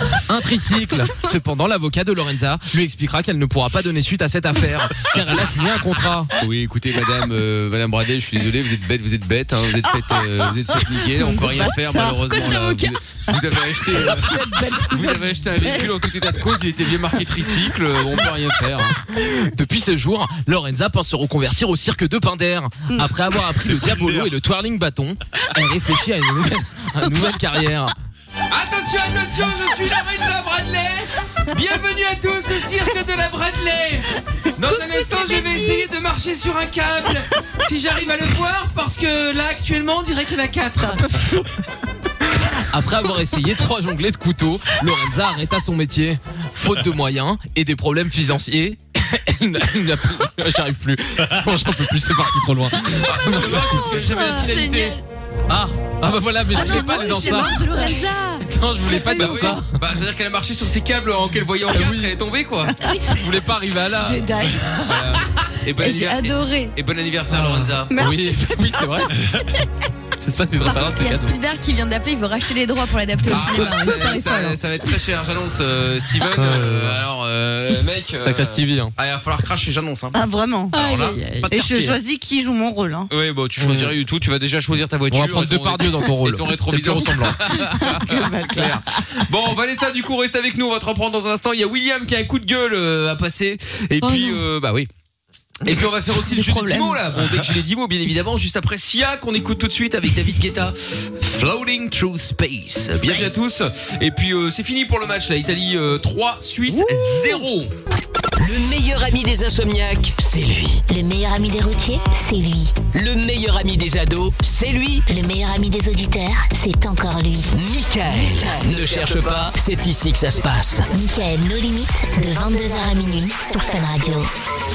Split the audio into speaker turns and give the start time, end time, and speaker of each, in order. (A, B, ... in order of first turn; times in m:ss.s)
0:00.3-0:06.3 A
0:06.4-0:18.9 B
0:11.1-0:12.6 C
0:12.3-0:12.9 D
0:13.3-0:15.9 C
0:19.1-0:27.9 A
0:28.5-0:41.2 B
0:34.7-0:35.8 C
0:40.9-0:41.4 C
0:42.7-0:54.0 A
0:53.0-0:55.0 B
0:53.7-0:55.0 C
0:55.5-0:57.6 A
0:56.5-0:58.1 C
0:56.6-0:59.6 D
0:58.4-0:59.6 A
0:59.1-1:02.7 B
1:01.7-1:02.1 A
1:02.8-1:03.2 D
1:03.1-1:04.3 A
1:04.0-1:05.0 C
1:04.9-1:07.9 B
1:05.8-1:06.7 D
1:07.3-1:09.3 A
1:07.9-1:08.8 C
1:10.2-1:11.4 A
1:10.6-1:14.6 D
1:13.2-1:20.2 B
1:16.4-1:17.0 A
1:18.2-1:18.9 A
1:20.1-1:20.8 C
1:20.7-1:21.5 D
1:20.7-1:22.0 B
1:21.5-1:23.1 C
1:23.1-1:34.9 B
1:23.6-1:23.9 A
1:25.1-1:27.6 A
1:27.6-1:28.8 C
1:34.0-1:34.4 D
1:35.6-1:47.7 B
1:36.2-1:37.0 D
1:48.4-1:50.8 E
1:50.9-1:52.8 F
1:52.9-1:55.1 E
1:55.1-1:57.5 F
1:57.5-2:00.9 E
2:00.9-2:04.3 F